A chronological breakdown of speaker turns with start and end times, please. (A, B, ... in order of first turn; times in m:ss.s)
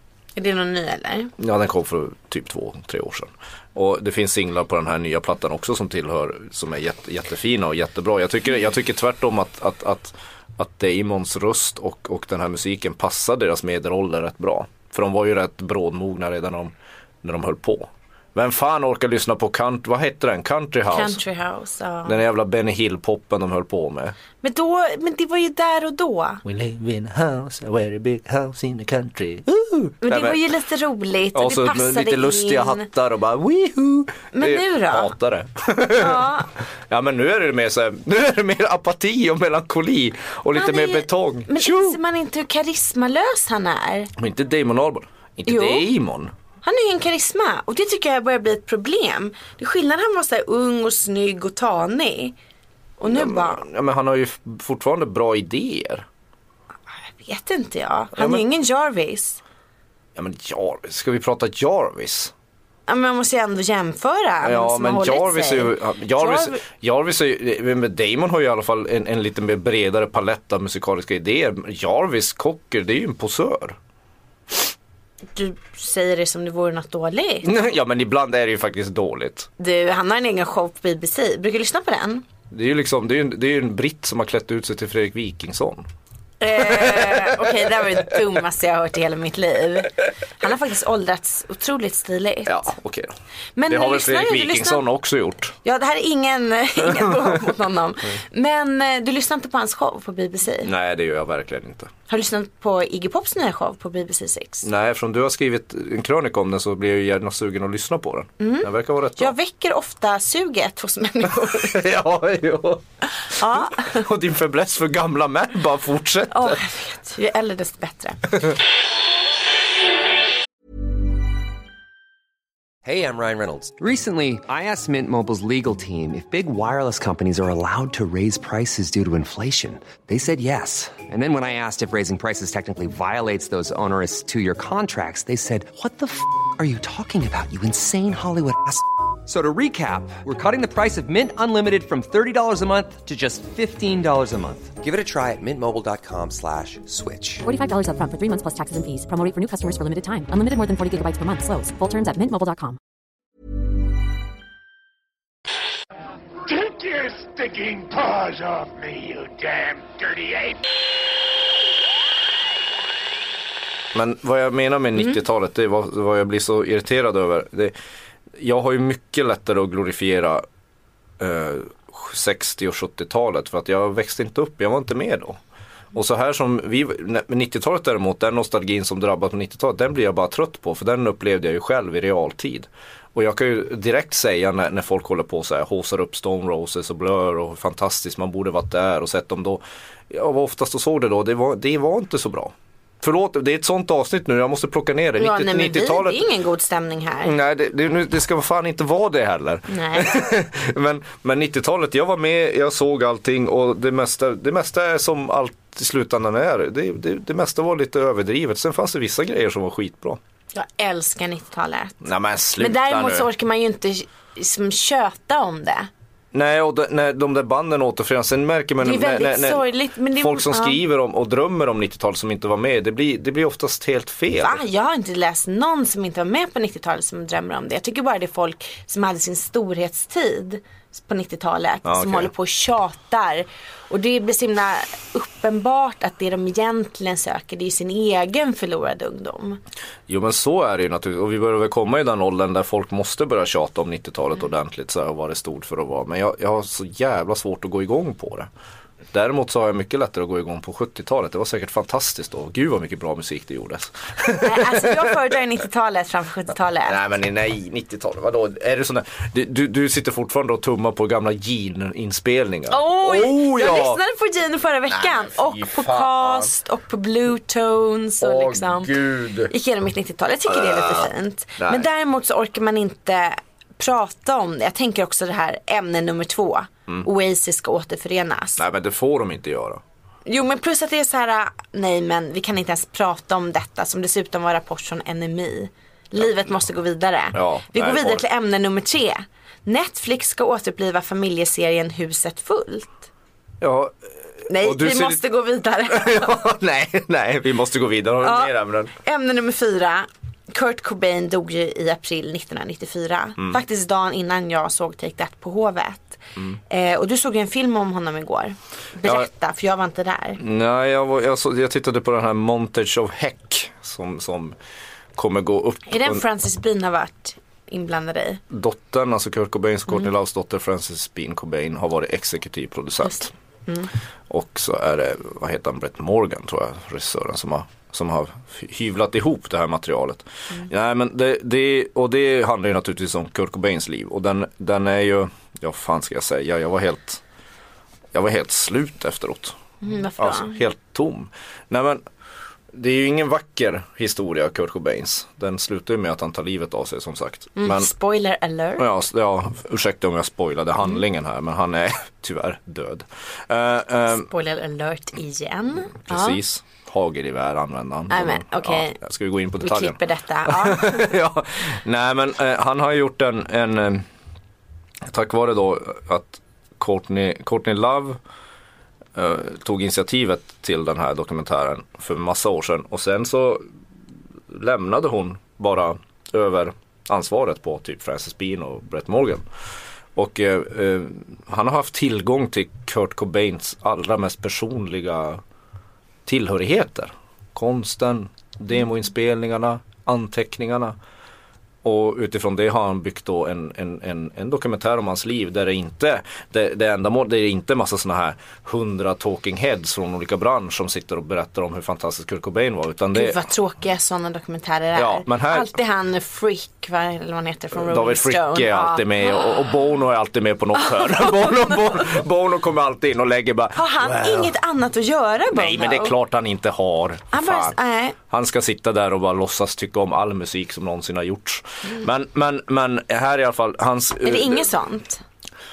0:00.4-0:01.3 A
0:01.4-0:21.2 B
0:20.9-0:22.2 A
0:22.0-0:24.2 B
0:24.4-0:26.4 A
0:26.4-0:30.4 B
0:30.0-0:32.9 A
0:31.3-0:42.0 B
0:34.3-0:35.1 A
0:36.0-0:36.5 A
0:40.5-0:44.1 A
0:44.2-0:46.3 B
0:45.5-0:45.9 A
0:46.6-0:52.3 A
0:53.0-0:53.6 A
0:53.0-0:56.0 B
0:57.0-0:59.4 A
0:58.2-0:58.4 B
1:00.2-1:02.3 B
1:02.9-1:06.6 A
1:04.4-1:13.8 B
1:15.3-1:17.5 A
1:17.4-1:19.5 B
1:19.6-1:22.2 A
1:22.5-1:25.8 B
1:26.4-1:32.7 A
1:26.5-1:27.6 B
1:32.4-1:33.1 B
1:33.6-1:34.8 A
1:33.7-1:35.5 B
1:35.6-1:40.7 A
1:36.8-1:37.3 B
1:40.6-1:41.9 B
1:42.1-1:44.7 A
1:44.6-1:49.3 B
1:48.4-1:51.8 A
1:51.4-1:52.8 B
1:53.3-1:54.0 A
1:53.4-1:56.6 B
1:56.3-1:58.4 A
2:02.8-2:27.4 C
2:27.4-2:32.8 D
2:36.4-2:40.6 E
2:43.9-2:47.7 B
2:48.4-2:50.4 B
2:51.2-2:55.4 B
2:55.9-3:16.2 B
3:15.2-3:17.3 A
3:17.2-3:30.2 B
3:19.7-3:20.2 A
3:30.5-3:32.0 A
3:32.0-3:33.3 B
3:32.6-3:35.9 A
3:36.3-3:44.6 B
3:38.8-3:40.8 A
3:44.4-3:59.6 A
3:51.8-3:52.3 B
4:00.1-4:08.5 B
4:09.1-4:15.3 B
4:14.3-4:17.0 A
4:16.8-4:24.0 B
4:22.7-4:38.6 A
4:24.9-4:26.5 B
4:28.2-4:29.5 B
4:30.5-4:31.8 B
4:38.6-4:39.8 B
4:40.2-4:53.1 A
4:47.3-4:48.2 B
4:53.6-4:55.2 B
4:54.5-4:56.5 A
4:55.9-4:58.9 B
4:58.2-5:10.4 A
5:10.4-5:14.6 B
5:15.2-5:16.2 B
5:15.9-5:18.4 A
5:18.5-5:23.3 B
5:24.3-5:37.2 B
5:38.1-5:39.6 B
5:39.8-5:40.6 A
5:40.2-5:42.0 B
5:42.7-5:47.9 B
5:47.6-5:48.9 A
5:48.8-5:54.3 B
5:54.1-5:56.4 A
5:56.0-6:04.0 B
5:58.1-5:59.0 A
5:59.6-6:01.1 A
6:05.1-6:08.2 B
6:09.1-6:13.6 B
6:14.5-6:19.4 B
6:20.2-6:25.4 B
6:26.2-6:31.0 B
6:31.8-6:43.4 B
6:43.1-6:49.7 A
6:44.9-6:45.7 B
6:47.7-6:54.5 B
6:50.9-6:52.0 A
6:53.7-6:56.1 A
6:55.5-6:57.7 B
6:57.3-6:58.2 A
6:58.3-7:04.7 B
7:04.2-7:05.2 A